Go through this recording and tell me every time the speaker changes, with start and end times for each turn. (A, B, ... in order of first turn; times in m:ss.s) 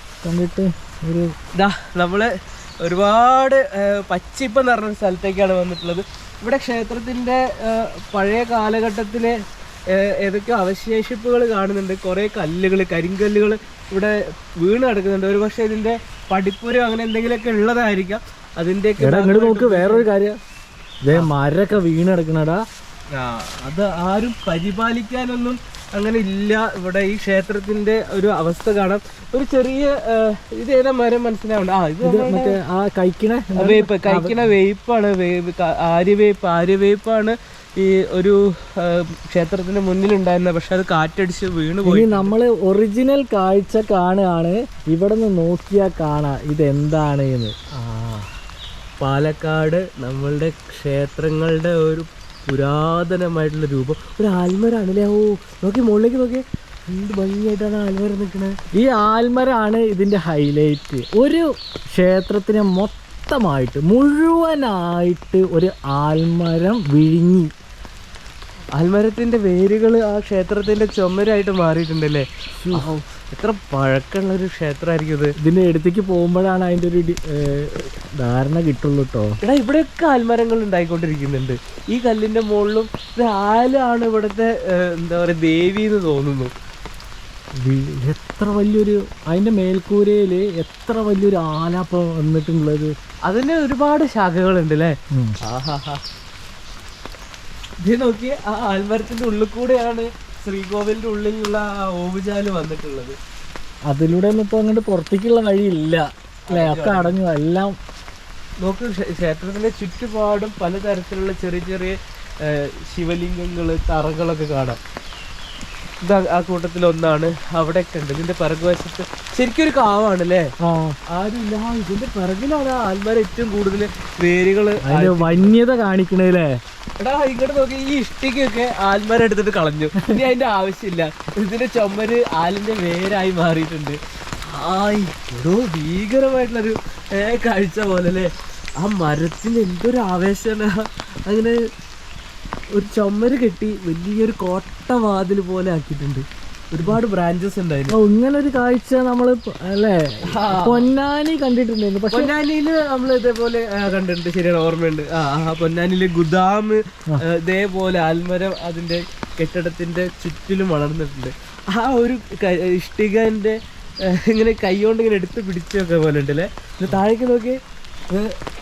0:00.2-0:01.3 A
0:01.6-0:02.3 B
0:02.8-0:09.4 B
0:09.9-0:20.1 B
0:19.0-0:20.4 A
0:21.0-0:22.6 A
0:23.2-0:32.6 B
0:32.0-0:34.4 A
0:33.6-0:42.3 B
0:41.8-0:48.3 A
0:49.0-0:58.5 B
0:58.8-1:07.5 A
1:08.8-1:15.3 B
1:15.4-1:19.4 A
1:19.4-1:26.5 B
1:27.6-1:32.9 A
1:33.3-1:36.0 B
1:37.8-1:43.2 B
1:43.9-1:47.7 A
1:46.5-1:47.2 B
1:48.6-1:54.8 B
1:56.0-2:00.5 B
2:00.6-2:01.0 A
2:01.1-2:05.5 B
2:04.9-2:06.6 A
2:07.0-2:21.6 B
2:22.7-2:27.9 B
2:27.9-2:32.3 A
2:30.3-2:30.8 B
2:32.1-2:47.6 B